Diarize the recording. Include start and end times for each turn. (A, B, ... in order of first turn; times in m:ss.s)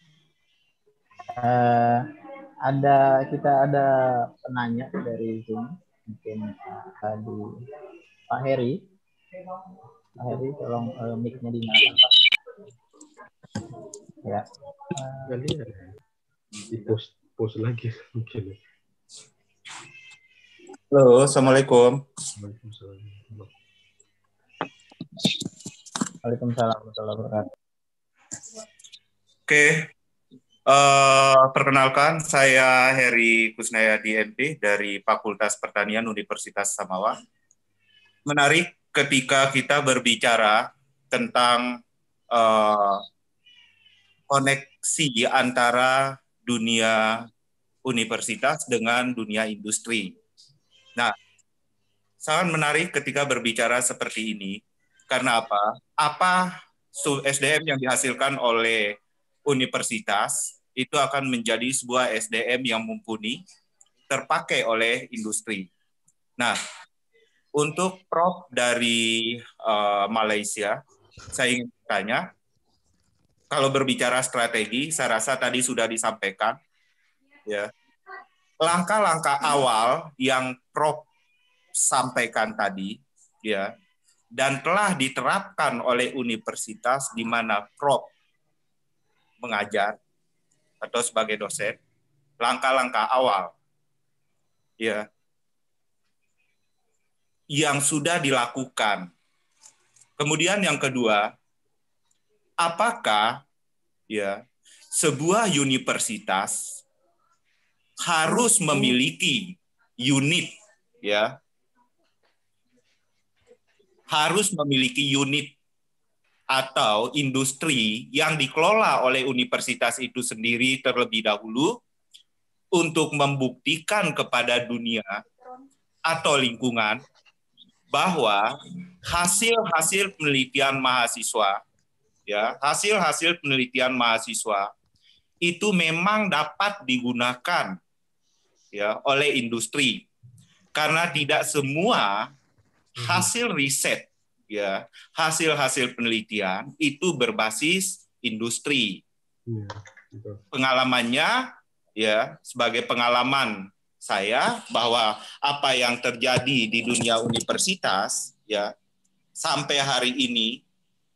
0:01.4-0:02.0 A
0:02.6-0:07.5 A
0:08.3-0:08.9 A
0:10.2-0:12.2 A
0:14.2-0:15.3 A
0:15.3-0:15.9 B
0:16.6-0:18.6 B
0:20.9-0:22.0 C
0:22.4-0:23.5 B
0:26.2-0:27.5 A
0:29.5-0:29.8 C
0:30.7-0:37.1 C
0:38.3-0:41.7 C
0:42.3-0:43.0 C
0:44.3-0:47.2 C
0:47.8-0:50.2 C
0:52.2-0:58.9 C
0:59.5-1:03.4 C
1:04.1-1:05.7 C
1:07.6-1:10.8 C
1:11.3-1:12.3 C
1:13.5-1:16.6 C
1:18.6-1:21.1 C
1:21.9-1:23.7 C
1:24.4-1:28.1 C
1:29.4-1:30.0 C
1:30.8-1:31.8 C
1:32.4-1:33.5 C
1:34.8-1:35.0 C
1:37.5-1:39.1 C
1:40.2-1:41.3 C
1:42.6-1:43.4 C
1:44.1-1:44.4 C
1:44.9-1:46.6 C
1:48.0-1:51.3 C
1:54.1-1:55.5 C
1:56.5-2:01.8 C
2:02.7-2:05.2 C
2:06.0-2:07.0 C
2:07.9-2:08.5 C
2:09.0-2:11.6 C
2:12.3-2:14.7 C
2:15.4-2:17.8 C
2:18.7-2:20.0 C
2:20.7-2:22.3 C
2:23.0-2:23.3 B
2:23.0-2:29.0 C
2:29.5-2:30.4 B
2:30.5-2:31.4 C
2:32.0-2:38.7 C
2:39.4-2:40.6 C